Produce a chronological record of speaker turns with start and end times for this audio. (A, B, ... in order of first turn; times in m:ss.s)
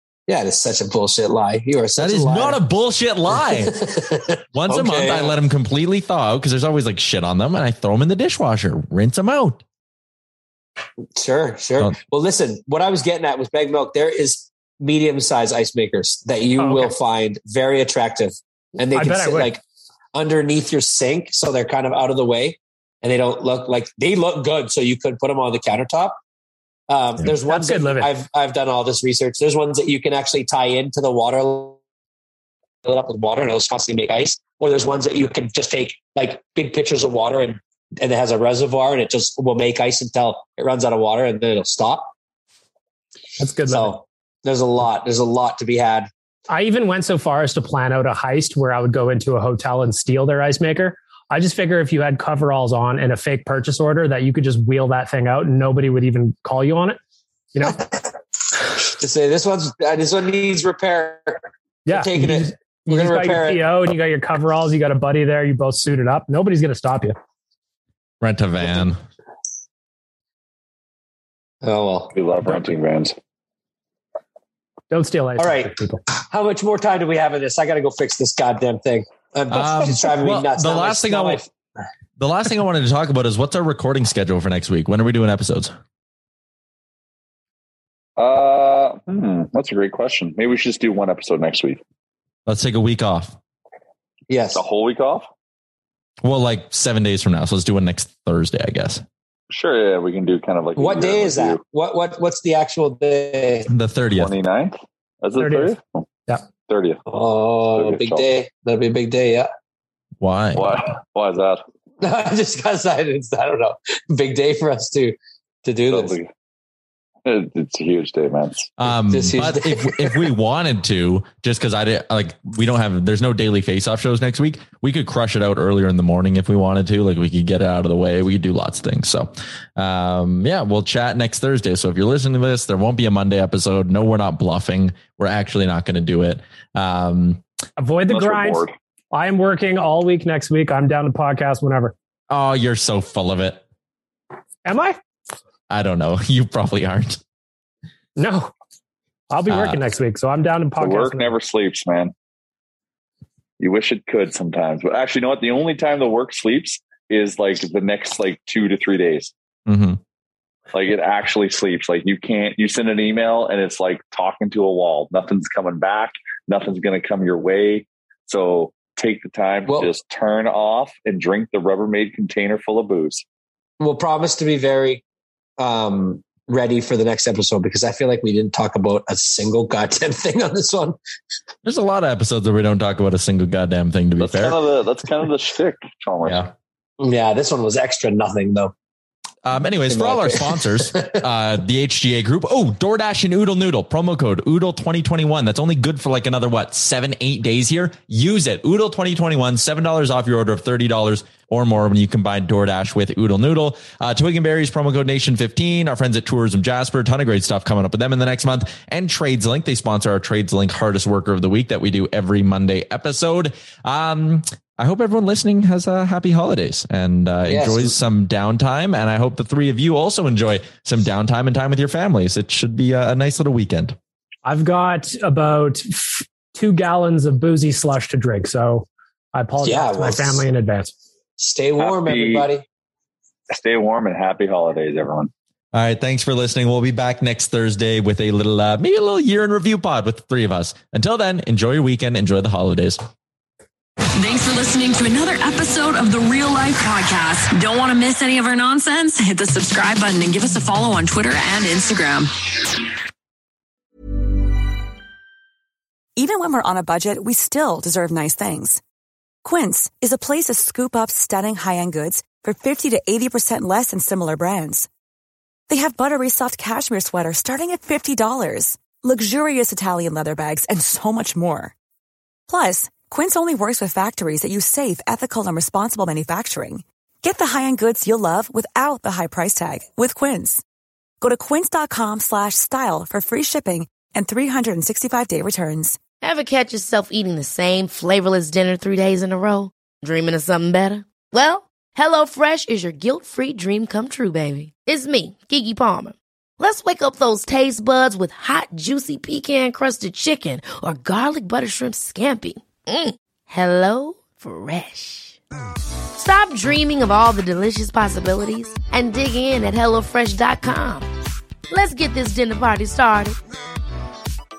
0:00.3-0:02.6 A
0:02.0-0:03.8 B
0:03.5-0:05.3 A
0:04.5-0:09.6 B
0:11.2-0:19.6 A
0:16.6-0:16.9 C
0:18.9-0:19.5 C
0:20.1-0:26.2 A
0:26.9-0:31.8 A
0:27.4-0:28.1 C
0:32.8-0:42.1 A
0:43.4-0:44.0 C
0:43.7-0:46.1 A
0:46.5-0:57.0 C
0:57.5-0:57.8 C
0:58.8-1:03.6 A
1:01.8-1:07.2 C
1:08.2-1:09.0 B
1:11.6-1:12.1 A
1:12.1-1:13.1 D
1:14.9-1:16.0 C
1:15.4-1:21.5 A
1:19.5-1:21.4 B
1:22.2-1:25.7 B
1:28.2-1:31.8 D
1:32.4-1:33.4 B
1:34.3-1:34.6 A
1:34.5-1:35.3 D
1:36.2-1:39.0 B
1:39.5-1:41.6 D
1:40.8-1:43.7 A
1:43.7-1:44.3 B
1:44.2-1:46.0 D
1:45.4-1:45.7 C
1:46.7-1:47.0 D
1:47.1-1:49.5 A
1:47.8-1:48.2 D
1:50.2-1:50.8 B
1:50.6-1:51.6 D
1:52.0-1:56.2 A
1:55.9-1:56.3 D
1:57.2-1:58.7 D
1:58.8-2:17.4 B
1:59.1-2:00.3 A
2:17.8-2:21.9 C
2:18.1-2:18.7 D
2:22.3-2:23.6 B
2:24.6-2:25.0 C
2:25.7-2:27.2 B
2:28.2-2:28.5 C
2:29.3-2:31.3 C
2:29.5-2:29.8 B
2:30.8-2:32.1 D
2:33.6-2:39.3 D
2:39.7-2:40.0 B
2:40.7-2:53.2 D
2:53.8-2:55.0 A
2:55.6-3:01.0 A
3:01.6-3:04.6 B
3:04.2-3:06.4 D
3:06.2-3:06.5 B
3:07.0-3:08.7 A
3:09.4-3:44.0 B
3:09.9-3:11.2 A
3:37.5-3:37.9 A
3:44.4-3:50.9 C
3:49.6-3:50.4 A
3:51.4-3:52.6 A
3:51.8-3:52.5 D
3:53.5-3:55.3 D
3:55.7-4:03.0 B
4:04.2-4:12.3 E
4:16.2-4:18.8 F
4:19.4-4:24.9 F
4:25.7-4:31.7 F
4:32.5-4:40.6 F
4:41.2-4:46.0 F
4:46.2-5:05.4 G
5:06.1-5:11.1 G
5:11.7-5:13.4 G